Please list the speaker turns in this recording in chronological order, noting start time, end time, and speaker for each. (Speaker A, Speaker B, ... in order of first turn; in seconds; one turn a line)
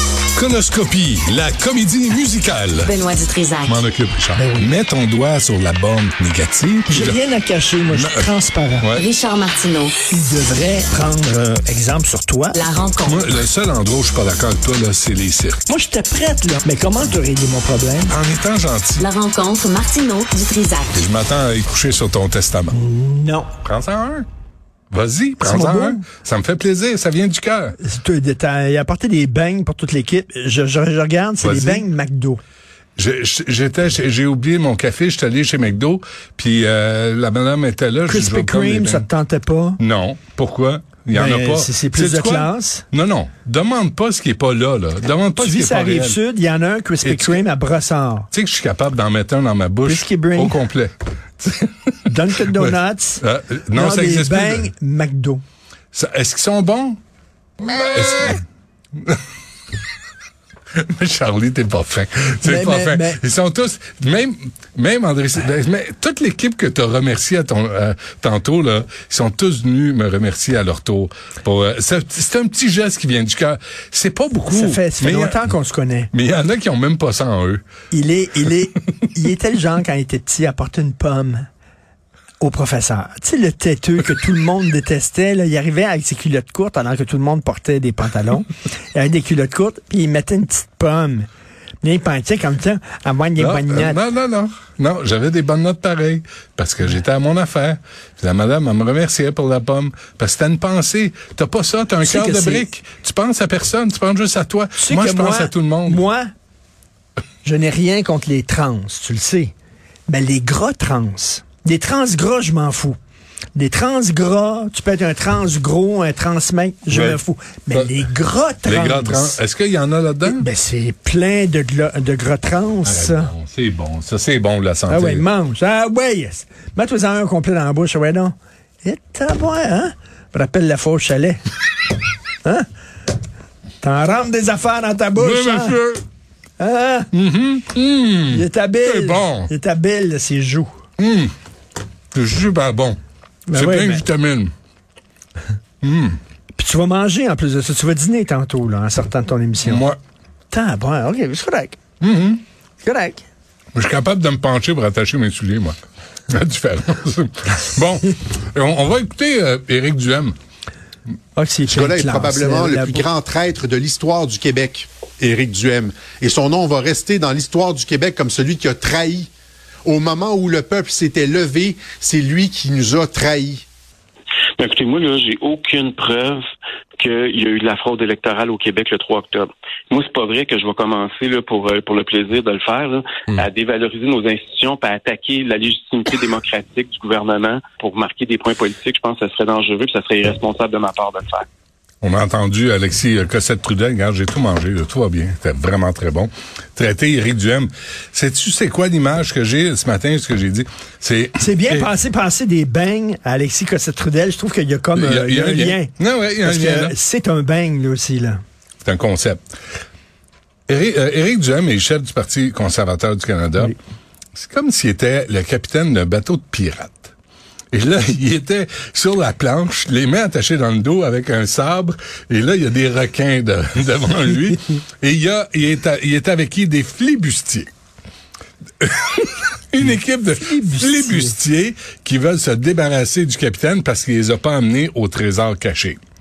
Speaker A: 0.3-3.0
Speaker B: 2.8-3.8
Speaker A: 3.6-7.2
Speaker C: 4.4-4.7
Speaker C: 6.9-8.9
Speaker A: 7.9-8.3
Speaker A: 8.8-9.1
Speaker B: 8.9-9.9
Speaker C: 10.1-12.6
Speaker B: 12.5-13.3
Speaker A: 13.0-15.6
Speaker C: 15.7-18.1
Speaker A: 18.1-19.1
Speaker B: 19.0-21.0
Speaker A: 20.9-22.8
Speaker C: 22.7-23.5
Speaker A: 23.6-24.3
Speaker A: 24.9-27.8
Speaker C: 25.4-26.0
Speaker C: 27.8-32.4
Speaker A: 31.4-31.9
Speaker A: 33.0-39.1
Speaker C: 38.1-39.8
Speaker A: 39.8-46.2
Speaker C: 41.1-42.9
Speaker C: 45.4-48.3
Speaker A: 47.0-47.4
Speaker A: 48.3-54.7
Speaker C: 49.9-50.6
Speaker C: 52.1-55.4
Speaker A: 55.9-57.0
Speaker A: 57.6-58.4
Speaker A: 60.8-75.5
Speaker C: 62.4-63.2
Speaker C: 74.5-76.1
Speaker A: 76.1-77.6
Speaker C: 77.9-81.5
Speaker C: 82.4-91.3
Speaker C: 91.8-94.0
Speaker A: 93.4-106.0
Speaker C: 102.0-102.7
Speaker C: 104.8-106.3
Speaker C: 107.4-109.5
Speaker C: 110.1-113.0
Speaker C: 113.5-119.4
Speaker A: 116.9-117.2
Speaker A: 118.7-120.5
Speaker C: 120.3-123.3
Speaker A: 122.8-125.2
Speaker C: 124.9-131.4
Speaker C: 133.8-135.8
Speaker A: 135.2-136.0
Speaker C: 136.6-137.1
Speaker A: 137.1-139.5
Speaker C: 138.3-140.7
Speaker A: 141.0-141.3
Speaker A: 142.1-143.0
Speaker C: 143.5-144.0
Speaker A: 143.5-144.5
Speaker A: 145.8-146.2
Speaker C: 146.6-149.9
Speaker A: 149.6-150.0
Speaker C: 150.5-151.8
Speaker A: 152.0-152.4
Speaker C: 152.8-153.2
Speaker A: 153.8-155.8
Speaker A: 156.3-160.4
Speaker C: 161.4-163.1
Speaker D: 161.7-169.3
Speaker D: 169.8-173.7
Speaker E: 174.6-176.4
Speaker E: 177.0-191.5
Speaker B: 178.4-179.1
Speaker B: 180.1-181.2
Speaker B: 181.9-182.3
Speaker B: 188.5-190.4
Speaker A: 192.0-201.9
Speaker C: 201.4-208.4
Speaker A: 204.9-206.9
Speaker A: 208.8-209.4
Speaker A: 210.7-213.8
Speaker A: 214.4-217.1
Speaker A: 217.7-227.7
Speaker A: 228.8-236.0
Speaker C: 230.4-231.3